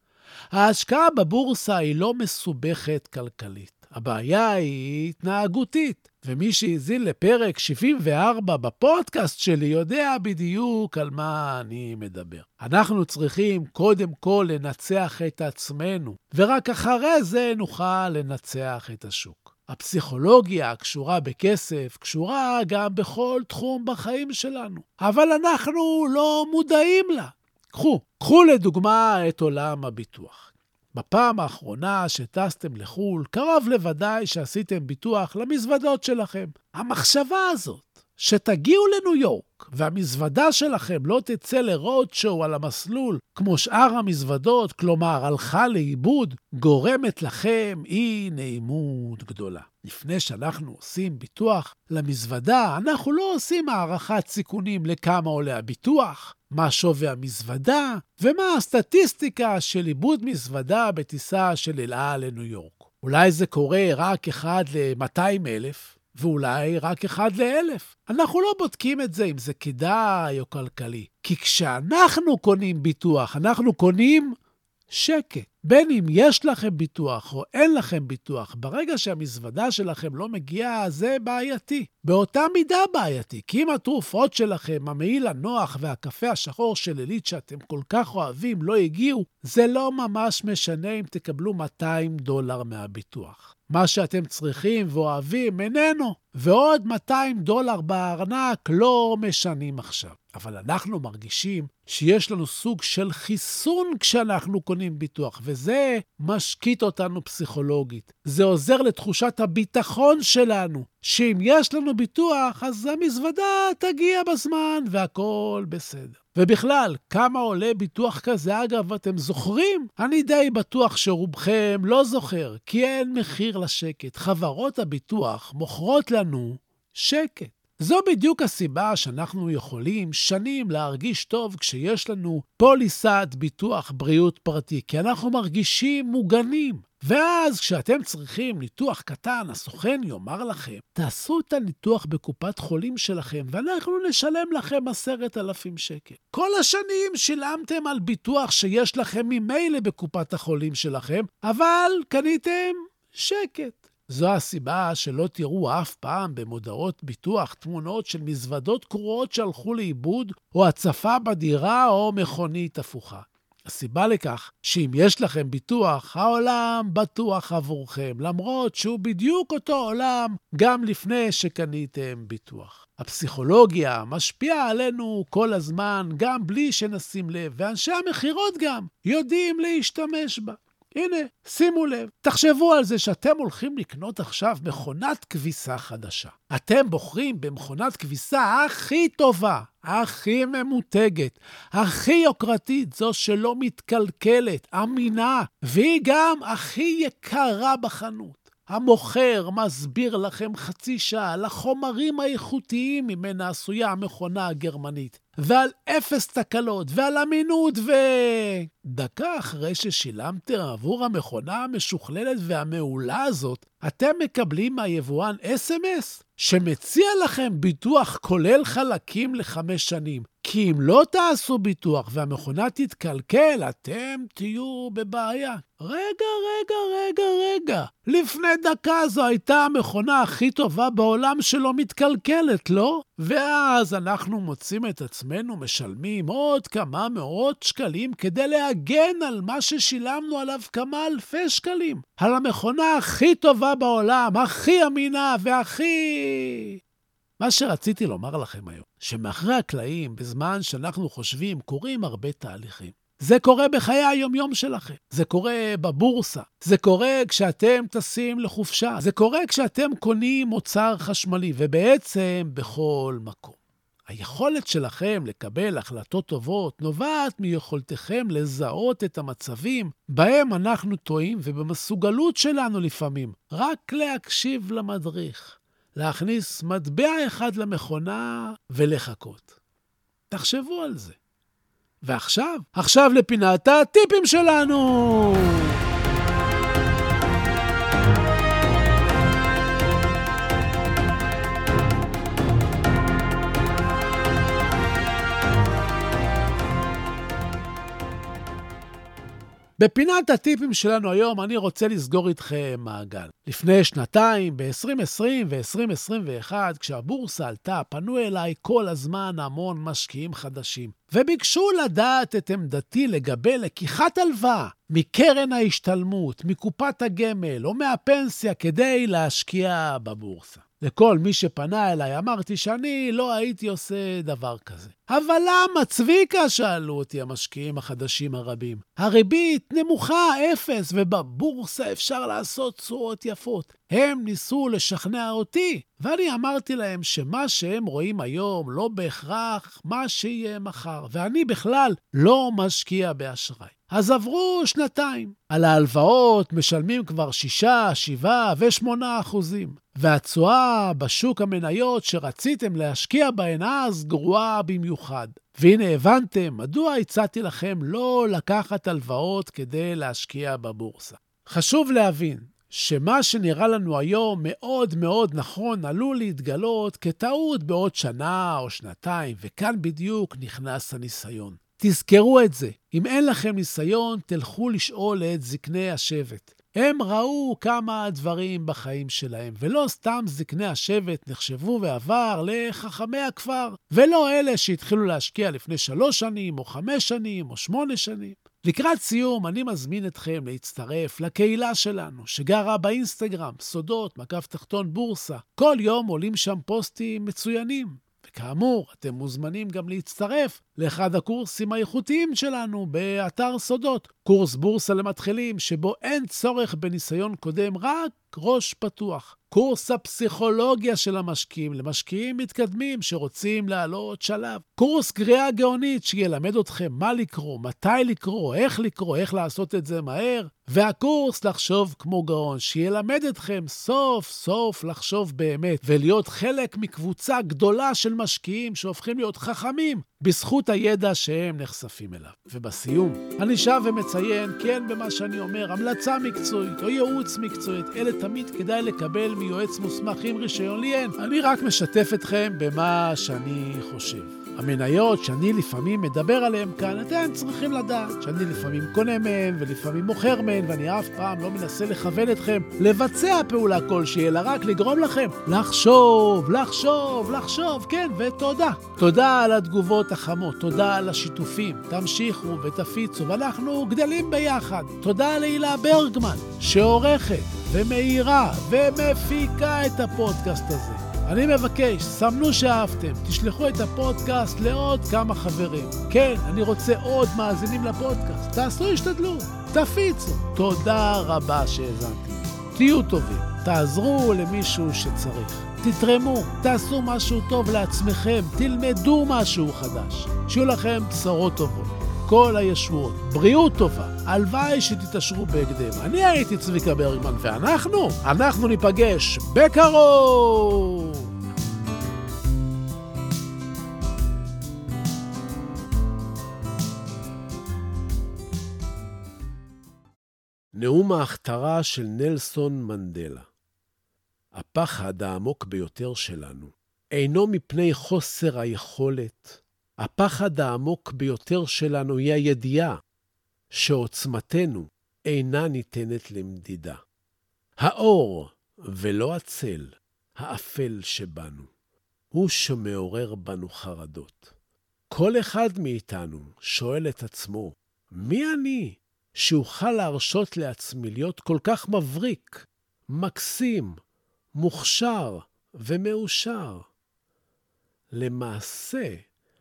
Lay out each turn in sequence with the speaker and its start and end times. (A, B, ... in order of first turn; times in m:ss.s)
0:00.5-1:14.4 A
1:14.9-4:06.8 A
4:07.4-4:39.6 A
4:40.3-4:41.2 A
4:42.0-4:45.8 A
4:59.8-8:21.3 A
8:30.7-8:33.5 A
8:34.5-8:43.0 A
8:43.7-8:47.0 A
8:47.8-8:51.7 A
8:52.3-8:54.5 A
8:55.1-9:04.0 A
9:04.6-9:06.9 A
9:08.1-9:09.2 A